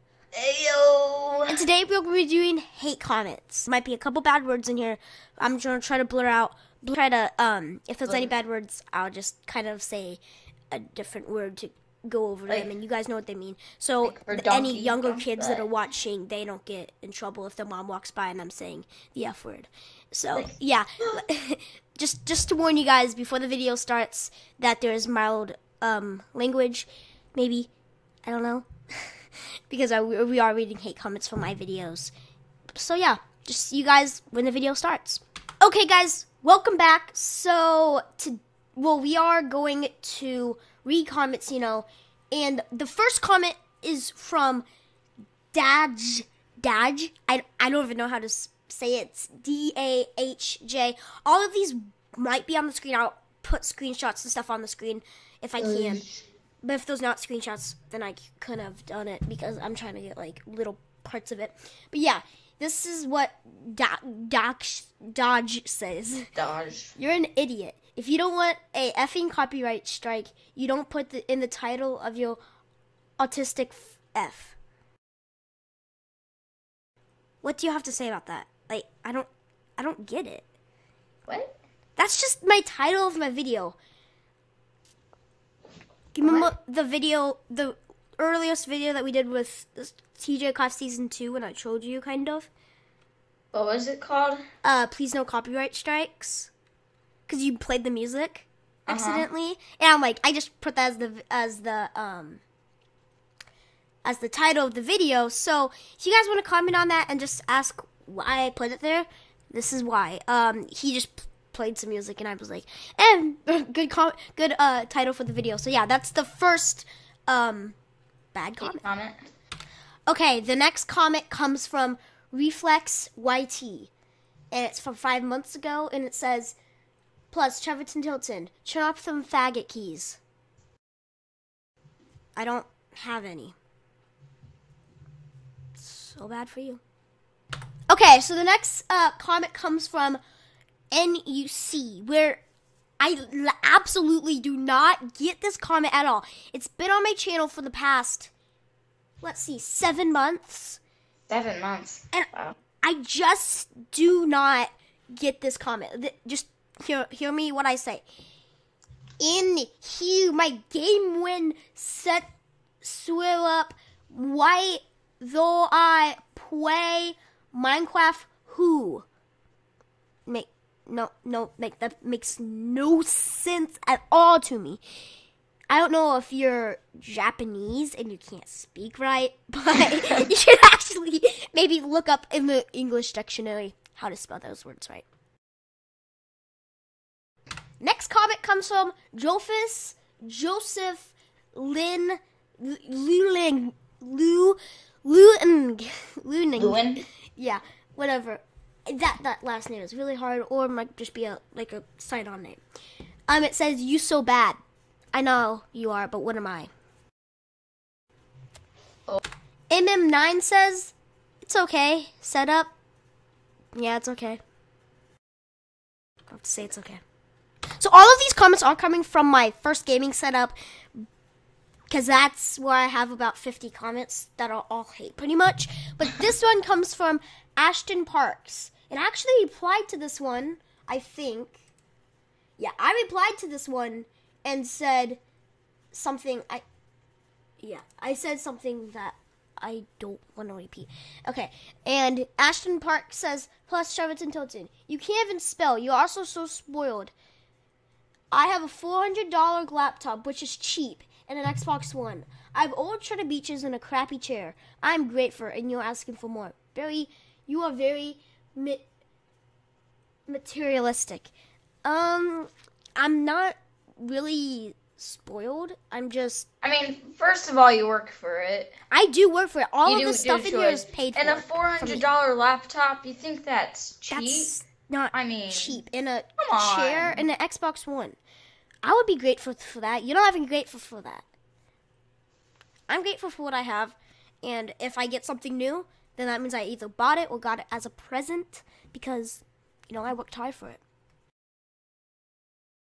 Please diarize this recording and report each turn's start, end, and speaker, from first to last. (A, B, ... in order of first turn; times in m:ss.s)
0:00.3-0:01.6 A
0:01.5-0:10.2 B
0:10.7-0:27.7 B
0:14.0-0:15.6 A
0:28.2-0:32.1 B
0:32.8-0:44.6 B
0:45.5-0:56.0 B
0:55.6-0:56.2 A
0:56.6-1:06.3 B
1:06.4-1:06.9 A
1:07.0-1:12.4 B
1:13.2-1:14.6 B
1:17.4-1:20.5 B
1:21.3-1:21.6 A
1:22.0-1:23.8 B
1:26.1-1:32.5 B
1:26.2-1:26.5 A
1:33.5-1:34.4 A
1:34.6-1:36.5 B
1:37.3-1:42.4 B
1:38.9-1:39.3 A
1:44.0-1:57.8 B
1:58.3-1:58.8 B
1:58.6-1:59.2 A
2:00.1-2:03.9 B
2:04.5-2:06.6 B
2:07.3-2:10.2 B
2:12.4-2:13.6 B
2:15.8-2:16.8 B
2:17.9-2:20.2 B
2:20.9-2:22.4 B
2:23.0-2:28.3 B
2:29.2-2:30.8 B
2:31.3-2:32.6 A
2:32.8-2:38.0 B
2:39.2-2:42.2 B
2:42.8-2:49.1 B
2:50.3-2:54.8 B
2:55.7-3:05.0 B
3:07.8-3:22.6 B
3:16.6-3:17.0 A
3:23.3-3:24.6 B
3:25.1-3:26.7 B
3:29.7-3:32.7 B
3:33.8-3:34.4 B
3:36.3-3:37.0 B
3:37.8-3:41.1 B
3:41.9-3:51.6 B
3:52.6-3:55.2 B
3:55.9-3:56.6 B
3:57.6-4:07.1 B
4:08.3-4:18.8 B
4:20.3-4:21.3 B
4:21.8-4:26.5 B
4:26.6-4:28.8 A
4:28.9-4:32.1 B
4:29.8-4:34.5 A
4:34.1-4:38.2 B
4:35.1-4:35.8 A
4:36.4-4:37.3 A
4:38.8-4:41.2 B
4:42.9-4:50.8 B